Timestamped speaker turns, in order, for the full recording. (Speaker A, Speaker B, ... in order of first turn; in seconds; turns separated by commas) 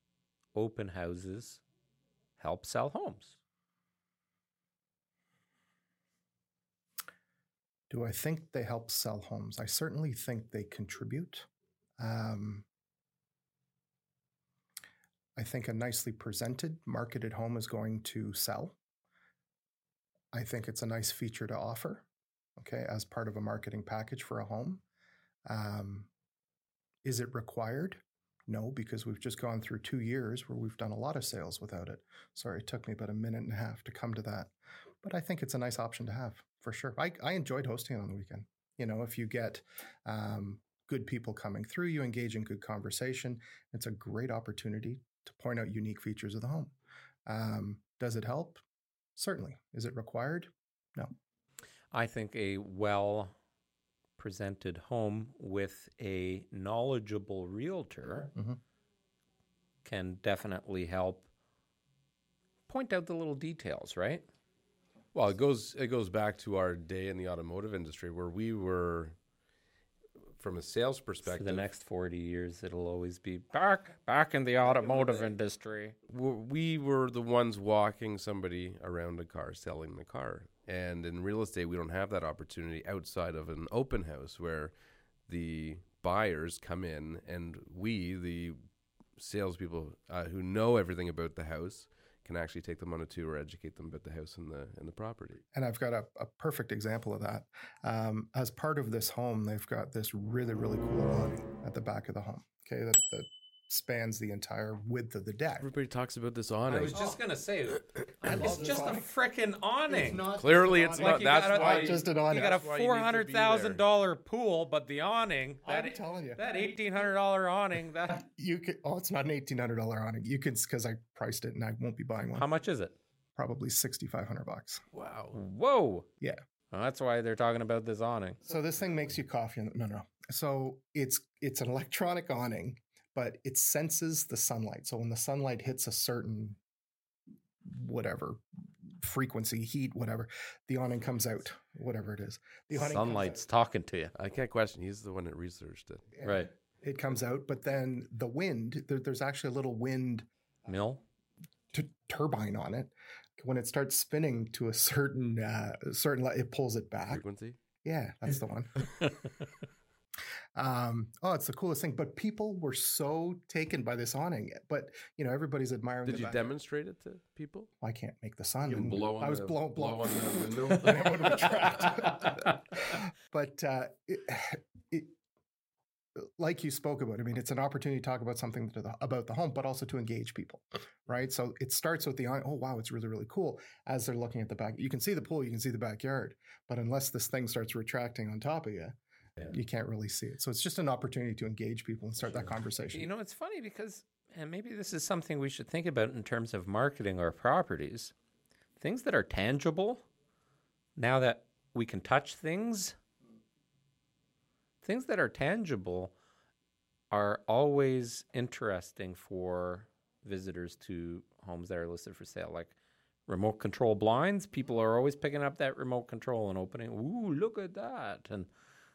Speaker A: 0.5-1.6, Speaker A: 2.4-3.4, Speaker B: 7.9-11.5, Speaker B: 12.0-12.7, Speaker B: 15.4-18.8, Speaker B: 20.3-24.8, Speaker B: 25.5-26.1, Speaker B: 27.0-46.7, Speaker B: 47.3-48.6, Speaker B: 49.2-51.1, Speaker A: 51.9-53.3, Speaker A: 54.2-58.3, Speaker B: 58.3-58.6, Speaker A: 59.9-61.2, Speaker A: 62.7-64.2, Speaker C: 65.1-69.2, Speaker C: 70.4-71.7, Speaker A: 71.3-76.0, Speaker C: 76.1-84.7, Speaker C: 85.3-88.6, Speaker C: 89.2-95.4, Speaker B: 95.5-105.7, Speaker C: 105.6-107.0, Speaker A: 106.7-110.3, Speaker B: 108.2-109.0, Speaker B: 109.9-112.6, Speaker C: 110.4-113.8, Speaker A: 111.0-118.2, Speaker B: 115.6-116.4, Speaker B: 118.1-122.5, Speaker A: 122.2-122.9, Speaker B: 123.4-124.8, Speaker C: 124.9-125.4, Speaker A: 125.3-126.1, Speaker A: 126.7-128.4, Speaker B: 128.4-136.6, Speaker B: 137.6-143.4, Speaker A: 142.7-144.1, Speaker C: 144.2-146.1, Speaker B: 146.2-150.3, Speaker A: 146.2-146.5, Speaker A: 150.7-151.0, Speaker B: 151.7-157.2, Speaker C: 157.1-157.6, Speaker B: 157.8-158.9, Speaker A: 158.9-159.3, Speaker B: 160.6-166.4, Speaker C: 166.1-167.7, Speaker B: 167.8-175.2, Speaker C: 168.7-171.8, Speaker A: 170.9-172.4, Speaker B: 176.2-193.1, Speaker A: 192.9-198.1, Speaker A: 198.8-200.1, Speaker A: 201.0-203.0, Speaker A: 204.8-206.1, Speaker A: 207.1-212.8, Speaker A: 213.3-218.5